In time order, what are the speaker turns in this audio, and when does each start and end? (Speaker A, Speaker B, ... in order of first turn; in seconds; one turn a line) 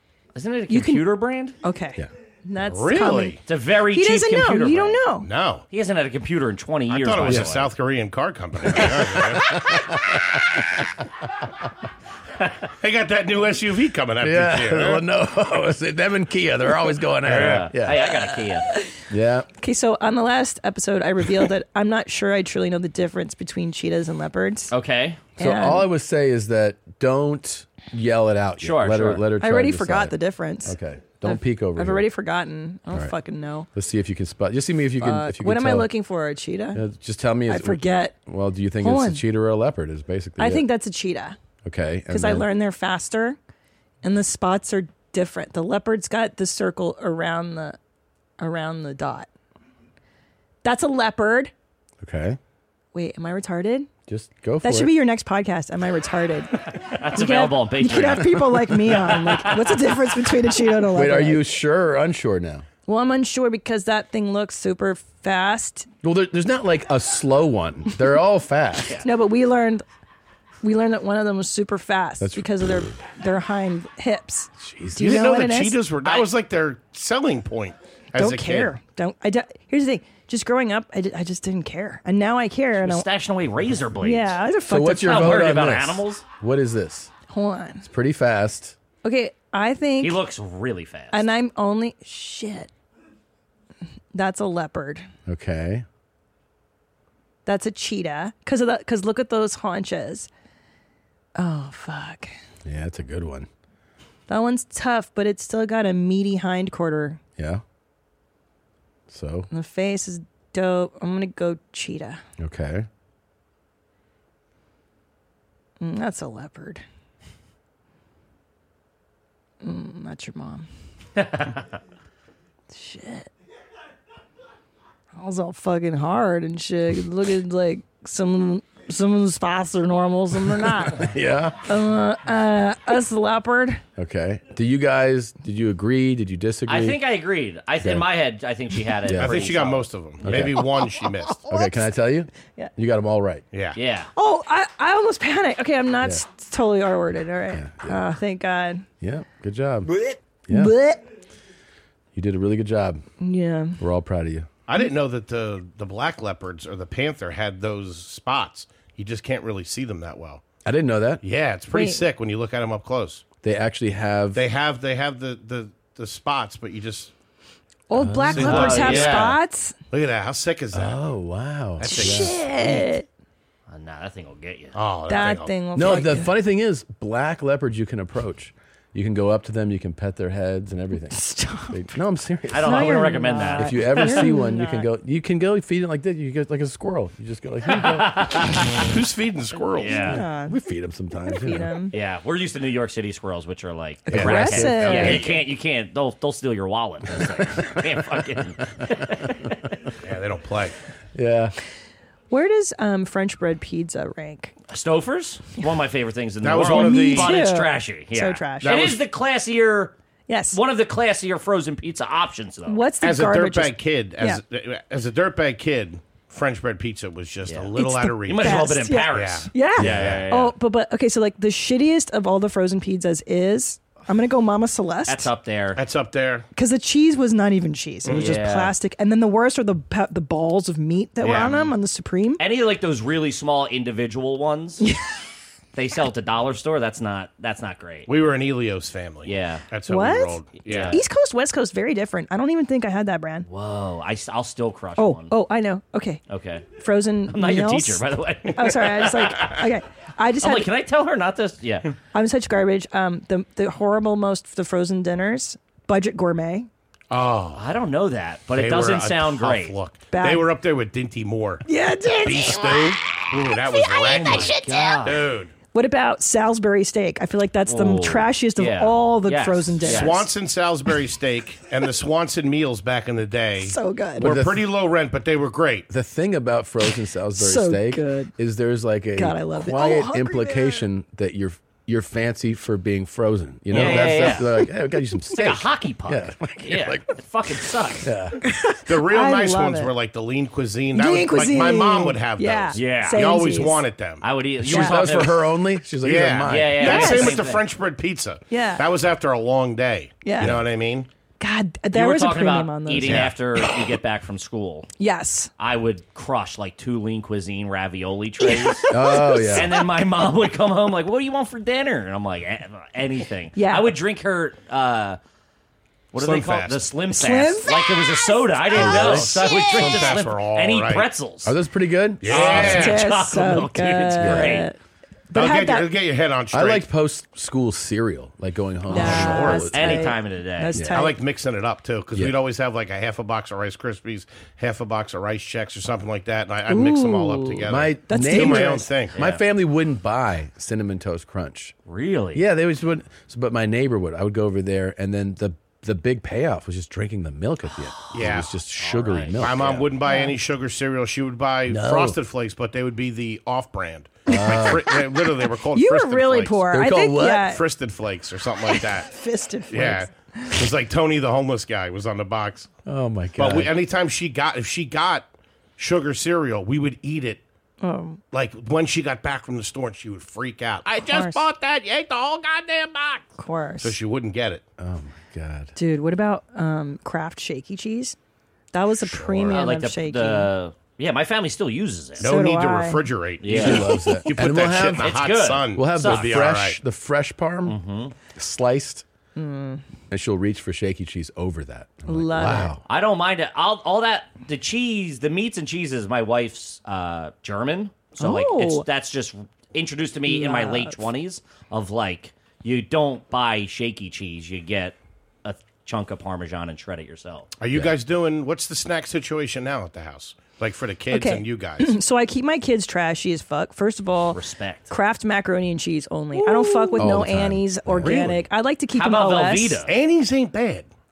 Speaker A: 0.3-1.5
Speaker B: 0.7-3.4
Speaker C: 2.6-3.4
Speaker A: 3.5-5.0
Speaker B: 3.9-5.3
Speaker C: 5.2-5.6
Speaker A: 5.7-7.7
Speaker C: 6.9-9.4
Speaker D: 7.2-7.5
Speaker D: 8.6-10.6
Speaker C: 12.8-15.0
Speaker D: 14.2-18.1
Speaker A: 17.2-18.7
Speaker C: 17.3-17.6
Speaker B: 18.6-18.9
Speaker D: 19.1-19.5
Speaker B: 19.6-24.7
Speaker A: 24.7-25.2
Speaker B: 25.4-25.9
Speaker D: 25.4-32.0
Speaker A: 28.6-29.2
Speaker B: 29.4-33.7
Speaker D: 33.7-35.9
Speaker B: 35.0-36.8
Speaker D: 36.7-40.6
Speaker B: 37.5-38.1
Speaker B: 38.8-39.2
Speaker B: 40.4-41.4
Speaker D: 41.6-42.5
Speaker B: 42.1-43.4
Speaker B: 44.0-47.8
Speaker B: 48.4-49.3
Speaker B: 50.6-51.5
Speaker D: 52.0-52.4
Speaker B: 52.9-53.9
Speaker D: 54.1-54.9
Speaker B: 54.6-61.5
Speaker A: 56.8-59.8
Speaker D: 60.9-62.6
Speaker B: 62.9-65.9
Speaker D: 66.0-68.9
Speaker B: 69.0-69.8
Speaker B: 70.6-75.8
Speaker D: 72.2-72.9
Speaker D: 74.6-75.2
Speaker C: 75.0-78.7
Speaker B: 78.1-83.0
Speaker A: 82.8-84.3
Speaker B: 84.0-85.5
Speaker D: 84.7-87.1
Speaker A: 85.0-86.2
Speaker B: 87.3-87.9
Speaker D: 87.8-88.8
Speaker B: 89.0-90.2
Speaker A: 90.0-91.2
Speaker B: 91.1-92.7
Speaker B: 94.1-95.1
Speaker D: 95.2-95.8
Speaker B: 97.5-100.3
Speaker B: 101.3-102.3
Speaker D: 102.6-103.5
Speaker B: 104.3-107.2
Speaker D: 107.4-107.6
Speaker D: 109.1-109.5
Speaker B: 109.5-112.2
Speaker D: 112.4-112.9
Speaker B: 115.8-116.8
Speaker B: 119.6-120.7
Speaker B: 122.7-123.3
Speaker B: 125.2-131.1
Speaker D: 130.8-131.7
Speaker B: 131.6-133.8
Speaker D: 134.0-137.0
Speaker A: 136.7-140.4
Speaker D: 137.8-138.1
Speaker D: 139.0-139.5
Speaker C: 139.2-141.5
Speaker D: 140.2-140.6
Speaker D: 141.5-143.4
Speaker C: 143.5-143.8
Speaker A: 143.8-144.1
Speaker B: 144.2-148.8
Speaker D: 147.5-148.0
Speaker D: 149.0-149.9
Speaker D: 150.5-150.7
Speaker B: 150.5-151.0
Speaker D: 152.1-153.0
Speaker B: 153.2-153.8
Speaker D: 153.8-154.5
Speaker C: 154.7-160.4
Speaker D: 160.6-161.2
Speaker C: 161.2-163.3
Speaker B: 161.7-162.0
Speaker D: 163.4-164.4
Speaker C: 164.3-167.1
Speaker B: 167.9-169.7
Speaker D: 167.9-168.9
Speaker C: 168.3-169.4
Speaker A: 168.4-169.3
Speaker C: 169.9-171.0
Speaker D: 170.7-172.9
Speaker C: 171.8-172.4
Speaker B: 171.8-173.1
Speaker A: 173.7-174.8
Speaker C: 174.7-176.0
Speaker B: 175.1-176.3
Speaker D: 175.7-183.0
Speaker B: 181.1-181.7
Speaker A: 182.5-184.3
Speaker B: 182.6-184.9
Speaker D: 183.6-188.8
Speaker A: 187.7-188.8
Speaker C: 188.8-190.2
Speaker A: 189.8-190.2
Speaker B: 189.9-190.6
Speaker D: 190.2-191.7
Speaker B: 191.3-191.9
Speaker A: 191.9-199.4
Speaker D: 194.1-195.2
Speaker B: 194.1-195.2
Speaker C: 194.8-195.3
Speaker D: 197.1-197.9
Speaker D: 198.9-199.3
Speaker C: 200.0-200.7
Speaker D: 201.1-201.5
Speaker B: 202.3-204.5
Speaker A: 204.7-209.9
Speaker C: 206.4-207.3
Speaker B: 206.6-208.8
Speaker C: 208.6-209.0
Speaker B: 210.3-210.6
Speaker A: 210.5-212.9
Speaker B: 212.7-214.4
Speaker C: 213.0-220.2
Speaker A: 217.5-217.7
Speaker B: 217.8-225.3
Speaker A: 218.3-220.5
Speaker D: 219.8-220.2
Speaker A: 225.1-225.8
Speaker C: 225.7-226.4
Speaker B: 226.5-232.4
Speaker C: 228.0-228.4
Speaker A: 228.1-228.7
Speaker C: 231.2-231.7
Speaker A: 231.3-231.6
Speaker A: 232.4-234.8
Speaker A: 235.7-238.1
Speaker C: 238.1-241.0
Speaker A: 239.2-239.7
Speaker B: 239.9-243.5
Speaker A: 240.6-241.0
Speaker A: 243.4-245.3
Speaker B: 245.0-246.2
Speaker A: 246.3-246.7
Speaker B: 246.8-250.7
Speaker A: 247.3-249.6
Speaker A: 250.4-251.9
Speaker B: 252.1-256.7
Speaker C: 257.1-257.7
Speaker A: 257.6-259.7
Speaker C: 258.5-261.6
Speaker B: 260.1-260.4
Speaker B: 261.6-262.9
Speaker C: 262.2-265.5
Speaker A: 264.0-265.2
Speaker B: 264.1-264.8
Speaker B: 265.7-270.3
Speaker A: 267.7-270.3
Speaker C: 269.9-275.9
Speaker B: 273.6-274.3
Speaker D: 274.2-274.6
Speaker D: 275.9-287.1
Speaker B: 277.4-278.3
Speaker B: 279.1-280.8
Speaker A: 283.7-284.6
Speaker B: 283.7-284.3
Speaker A: 285.3-288.1
Speaker D: 288.0-288.4
Speaker B: 288.4-289.9
Speaker C: 288.9-294.2
Speaker B: 290.9-293.8
Speaker A: 292.7-293.3
Speaker A: 294.2-295.5
Speaker D: 294.6-296.9
Speaker B: 294.7-295.0
Speaker C: 296.0-301.1
Speaker A: 296.4-297.6
Speaker B: 296.8-297.4
Speaker B: 298.5-298.8
Speaker B: 300.2-300.6
Speaker B: 301.4-303.3
Speaker A: 301.9-304.9
Speaker C: 303.0-303.4
Speaker B: 305.0-305.5
Speaker A: 305.6-308.9
Speaker B: 308.4-309.8
Speaker D: 308.9-309.7
Speaker A: 309.5-315.2
Speaker B: 313.5-313.9
Speaker A: 316.1-321.6
Speaker C: 316.1-316.9
Speaker B: 317.1-320.0
Speaker D: 318.7-319.4
Speaker C: 318.8-321.1
Speaker D: 321.4-322.9
Speaker C: 322.2-323.0
Speaker A: 322.2-324.7
Speaker B: 322.5-324.8
Speaker D: 324.2-324.6
Speaker B: 325.3-325.9
Speaker C: 325.3-326.9
Speaker D: 326.5-330.1
Speaker B: 328.9-331.2
Speaker C: 329.0-329.7
Speaker A: 329.0-330.9
Speaker C: 330.9-339.2
Speaker B: 336.7-338.9
Speaker D: 337.7-341.7
Speaker A: 339.1-339.4
Speaker A: 341.9-342.4
Speaker D: 342.3-349.8
Speaker A: 348.0-349.9
Speaker C: 348.1-348.6
Speaker C: 349.4-356.7
Speaker B: 350.0-350.4
Speaker D: 351.7-352.2
Speaker B: 354.3-354.8
Speaker D: 354.3-354.8
Speaker B: 355.7-357.6
Speaker D: 356.7-357.5
Speaker C: 357.4-359.1
Speaker B: 358.7-360.6
Speaker C: 359.7-362.7
Speaker D: 362.9-363.7
Speaker C: 363.4-367.4
Speaker B: 367.8-368.2
Speaker C: 368.3-374.6
Speaker B: 371.1-371.4
Speaker B: 373.4-373.9
Speaker D: 374.8-375.7
Speaker B: 375.8-378.1
Speaker B: 378.7-380.5
Speaker C: 379.0-379.6
Speaker A: 379.5-382.3
Speaker C: 382.2-386.8
Speaker B: 382.2-383.0
Speaker A: 383.4-383.9
Speaker D: 383.5-385.2
Speaker A: 385.0-386.4
Speaker D: 385.7-387.8
Speaker A: 387.7-388.1
Speaker D: 388.3-389.0
Speaker B: 389.4-389.8
Speaker D: 390.1-392.8
Speaker B: 392.1-392.7
Speaker A: 392.4-407.5
Speaker B: 398.2-398.9
Speaker B: 400.3-401.0
Speaker C: 407.6-412.0
Speaker B: 411.1-419.8
Speaker A: 414.3-414.9
Speaker D: 416.9-418.3
Speaker A: 418.9-419.9
Speaker C: 419.9-420.9